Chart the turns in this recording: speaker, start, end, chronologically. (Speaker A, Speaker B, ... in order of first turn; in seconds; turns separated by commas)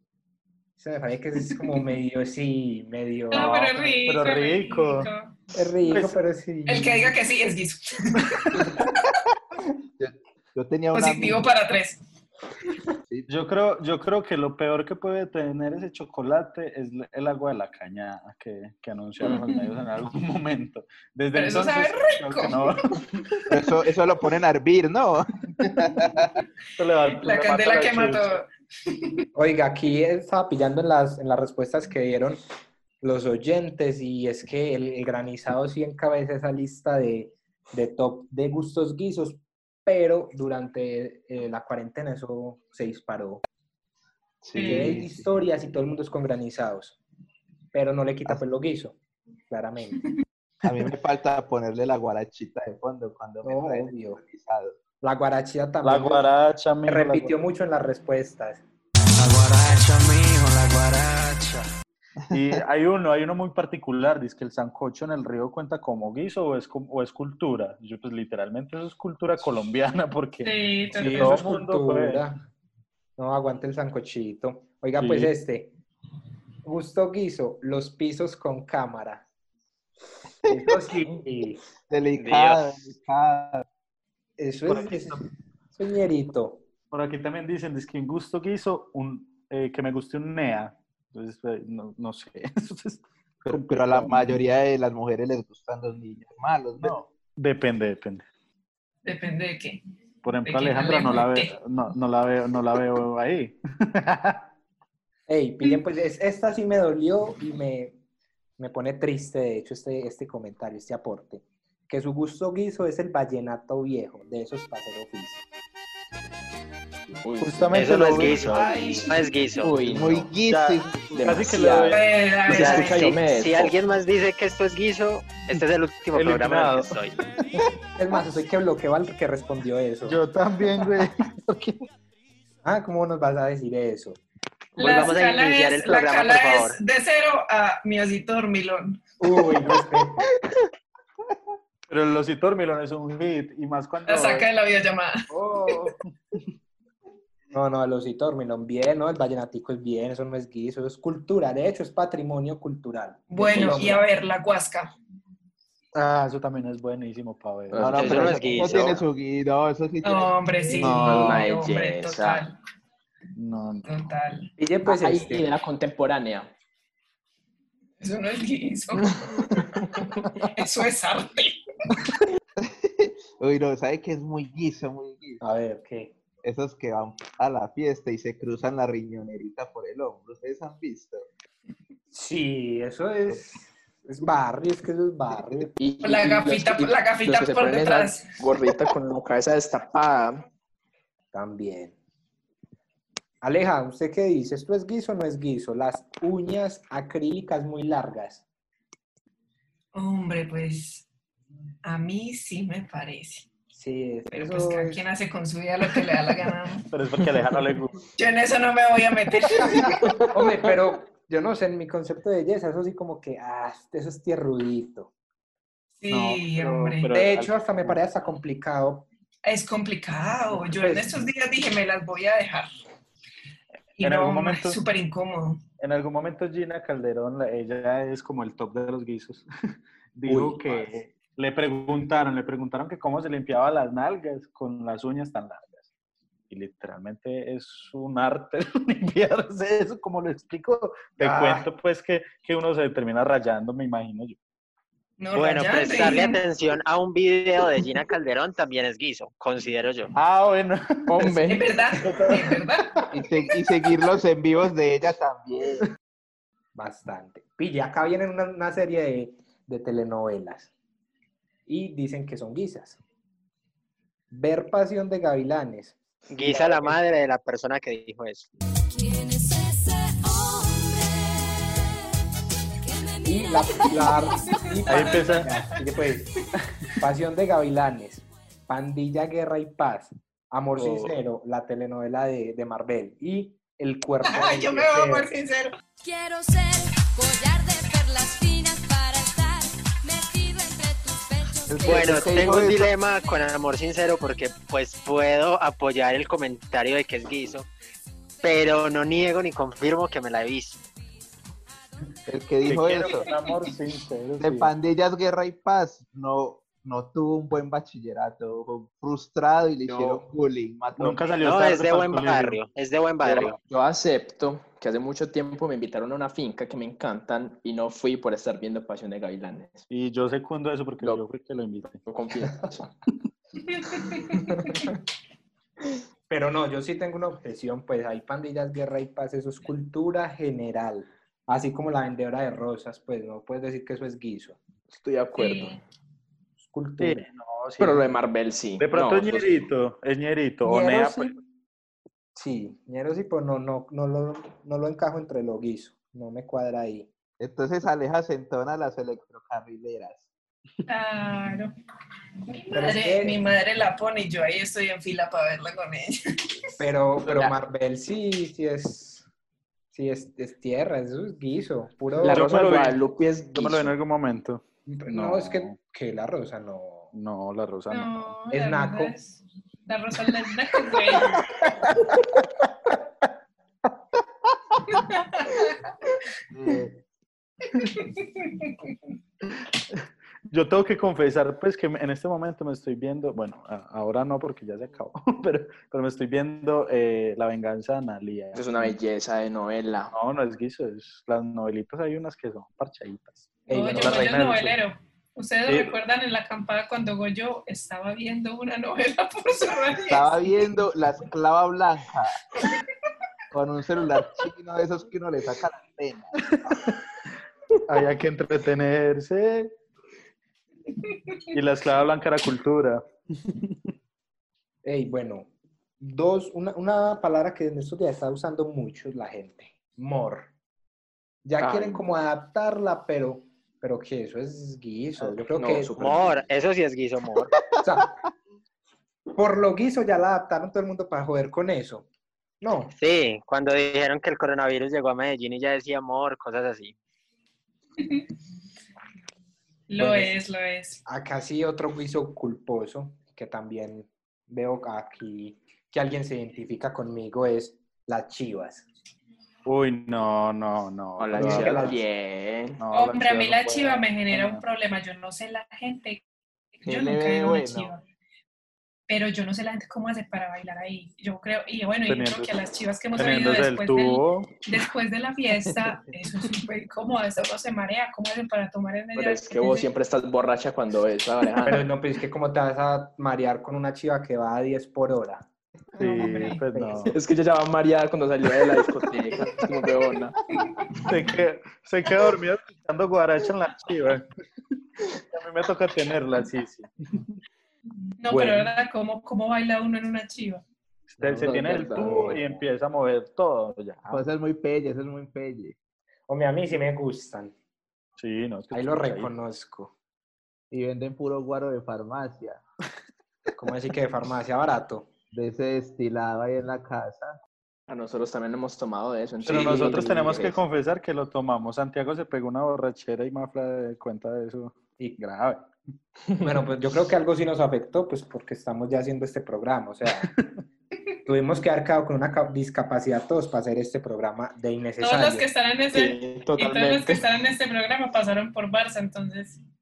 Speaker A: 0.8-4.0, Speaker B: 3.3-5.4, Speaker C: 3.3-5.1, Speaker A: 5.5-7.2, Speaker C: 5.9-6.2, Speaker B: 6.7-8.9, Speaker D: 10.0-11.5, Speaker B: 10.9-12.0, Speaker C: 13.3-23.5, Speaker B: 21.3-23.0, Speaker D: 23.5-26.3, Speaker C: 26.8-28.4, Speaker B: 27.1-29.2, Speaker A: 29.3-32.4, Speaker A: 33.0-43.4, Speaker D: 44.4-45.2, Speaker B: 44.5-45.0, Speaker A: 44.6-47.0, Speaker A: 47.7-49.0, Speaker A: 49.5-50.0, Speaker D: 50.6-54.8, Speaker A: 53.4-54.2, Speaker A: 55.0-56.2, Speaker C: 55.8-57.4, Speaker A: 56.9-58.6, Speaker E: 59.2-61.7, Speaker C: 62.3-72.2, Speaker B: 70.4-71.4, Speaker A: 70.9-72.4, Speaker A: 73.2-75.7, Speaker C: 75.0-75.3, Speaker A: 76.6-79.2, Speaker D: 80.5-80.9, Speaker A: 80.5-81.6, Speaker D: 81.9-83.7, Speaker F: 82.2-82.6, Speaker A: 84.4-85.2, Speaker C: 84.7-85.2, Speaker A: 85.7-86.7, Speaker C: 86.9-94.4, Speaker D: 93.4-97.0, Speaker C: 96.8-98.2, Speaker B: 99.0-99.8, Speaker C: 100.2-104.5, Speaker B: 100.4-101.5, Speaker A: 105.3-108.0, Speaker A: 108.6-115.4, Speaker G: 117.2-118.1, Speaker C: 117.4-118.8, Speaker F: 117.7-119.7, Speaker B: 118.5-119.2, Speaker G: 119.6-120.3, Speaker C: 119.7-122.2, Speaker D: 119.8-121.5, Speaker G: 121.1-123.8, Speaker B: 121.9-123.2, Speaker F: 122.5-127.1, Speaker C: 126.1-127.0, Speaker A: 128.0-130.2, Speaker C: 130.1-131.8, Speaker A: 132.6-134.2, Speaker F: 134.8-136.8, Speaker B: 134.8-139.1, Speaker A: 139.2-140.3, Speaker C: 141.9-144.5, Speaker B: 144.1-145.3, Speaker C: 145.3-146.1, Speaker A: 147.5-154.1, Speaker B: 153.3-154.9, Speaker C: 155.9-158.9, Speaker G: 157.7-159.0, Speaker D: 157.8-161.2, Speaker F: 157.9-158.9, Speaker B: 160.0-162.6, Speaker C: 160.8-161.5, Speaker G: 160.8-162.4, Speaker C: 163.4-163.9, Speaker B: 163.9-164.5, Speaker A: 164.6-165.5, Speaker G: 164.8-166.5, Speaker B: 168.0-169.5, Speaker B: 170.4-171.6, Speaker D: 172.6-175.4, Speaker A: 175.4-176.1, Speaker D: 176.4-181.3, Speaker A: 182.1-185.7, Speaker G: 185.8-190.5, Speaker B: 186.0-188.4, Speaker A: 191.3-191.9, Speaker A: 193.4-198.4, Speaker B: 199.9-201.1, Speaker B: 201.8-203.5, Speaker A: 203.7-205.1, Speaker B: 204.3-206.9, Speaker C: 206.9-208.1, Speaker B: 208.2-210.3, Speaker A: 210.3-215.1, Speaker B: 216.0-217.1, Speaker C: 216.1-217.5, Speaker A: 217.1-219.1, Speaker B: 219.4-222.7, Speaker A: 220.5-221.2, Speaker B: 224.0-225.6, Speaker C: 224.0-224.8, Speaker C: 225.8-229.5, Speaker C: 230.2-235.8, Speaker A: 230.3-230.9, Speaker C: 236.5-244.4, Speaker A: 241.2-241.7, Speaker B: 245.2-246.4, Speaker F: 245.3-250.1, Speaker C: 250.1-251.4, Speaker G: 251.1-251.7, Speaker B: 251.3-253.0, Speaker C: 252.0-253.0, Speaker D: 253.1-255.8, Speaker A: 256.8-260.7, Speaker A: 261.7-263.0, Speaker A: 264.3-266.9, Speaker F: 266.3-268.5, Speaker H: 268.9-271.4, Speaker H: 272.9-274.2, Speaker A: 273.2-276.4, Speaker B: 274.3-275.7, Speaker C: 274.9-275.5, Speaker A: 277.0-285.3, Speaker B: 284.2-285.8, Speaker H: 286.0-292.2, Speaker D: 291.7-292.9, Speaker F: 291.8-297.7, Speaker F: 298.4-300.8, Speaker D: 302.3-303.3, Speaker C: 302.7-304.7, Speaker D: 304.4-311.3, Speaker G: 309.9-310.2, Speaker C: 311.0-312.6, Speaker F: 311.4-313.6, Speaker G: 313.2-319.9, Speaker C: 319.9-322.0, Speaker G: 322.1-322.9, Speaker A: 326.3-334.6, Speaker G: 334.9-335.8, Speaker B: 335.3-335.8, Speaker A: 336.6-337.3, Speaker C: 337.0-338.1, Speaker G: 337.8-339.7, Speaker C: 338.8-341.3, Speaker G: 340.6-341.2, Speaker A: 342.4-347.1, Speaker D: 347.4-350.3, Speaker B: 350.9-351.7, Speaker B: 352.5-356.5, Speaker A: 352.7-353.4, Speaker A: 356.8-359.3, Speaker G: 357.2-357.5, Speaker A: 359.9-362.5, Speaker G: 362.2-363.9, Speaker C: 362.3-363.0, Speaker C: 363.5-365.8, Speaker A: 364.9-367.1, Speaker C: 367.1-368.4, Speaker B: 367.9-371.4, Speaker A: 368.5-369.1, Speaker B: 374.9-375.9, Speaker D: 376.5-377.0, Speaker B: 377.9-378.9, Speaker C: 379.9-388.9, Speaker G: 388.6-390.1, Speaker C: 390.1-394.8, Speaker A: 393.7-394.3, Speaker B: 393.7-400.4, Speaker C: 395.7-395.9, Speaker D: 400.1-402.4, Speaker D: 403.5-406.3, Speaker C: 407.9-409.7, Speaker B: 410.9-411.4, Speaker C: 411.5-413.9, Speaker A: 414.8-415.5, Speaker A: 416.0-420.5, Speaker A: 421.4-426.1, Speaker G: 421.6-422.0, Speaker G: 425.2-426.4, Speaker F: 426.0-427.5, Speaker A: 427.8-428.1, Speaker A: 429.4-432.1, Speaker A: 432.6-432.9, Speaker F: 433.0-436.9, Speaker B: 438.0-438.3, Speaker B: 439.9-441.0, Speaker A: 440.0-440.4, Speaker A: 441.1-448.9, Speaker C: 449.6-452.0, Speaker G: 451.2-452.8, Speaker A: 451.4-452.0, Speaker C: 452.8-454.6, Speaker B: 452.9-456.2, Speaker B: 456.8-458.0, Speaker D: 456.8-457.9, Speaker B: 459.1-469.9, Speaker C: 462.1-462.5, Speaker C: 463.1-464.6, Speaker D: 465.8-466.0, Speaker G: 469.1-471.9, Speaker A: 471.6-475.5, Speaker A: 476.0-477.1, Speaker C: 476.0-477.1, Speaker G: 477.1-480.4, Speaker B: 480.6-481.0, Speaker C: 481.1-484.3, Speaker C: 485.3-487.4, Speaker B: 488.2-490.6, Speaker A: 488.3-488.7, Speaker C: 491.1-494.3, Speaker G: 491.2-492.5, Speaker D: 491.4-492.4, Speaker D: 494.1-495.8, Speaker A: 496.3-497.5, Speaker C: 498.2-499.3, Speaker A: 498.7-499.9, Speaker D: 500.7-502.6, Speaker A: 503.6-505.1, Speaker D: 505.3-507.4, Speaker G: 507.9-510.6, Speaker C: 509.4-515.6, Speaker A: 516.4-520.3, Speaker A: 521.3-525.5, Speaker B: 525.0-529.6, Speaker G: 525.9-527.2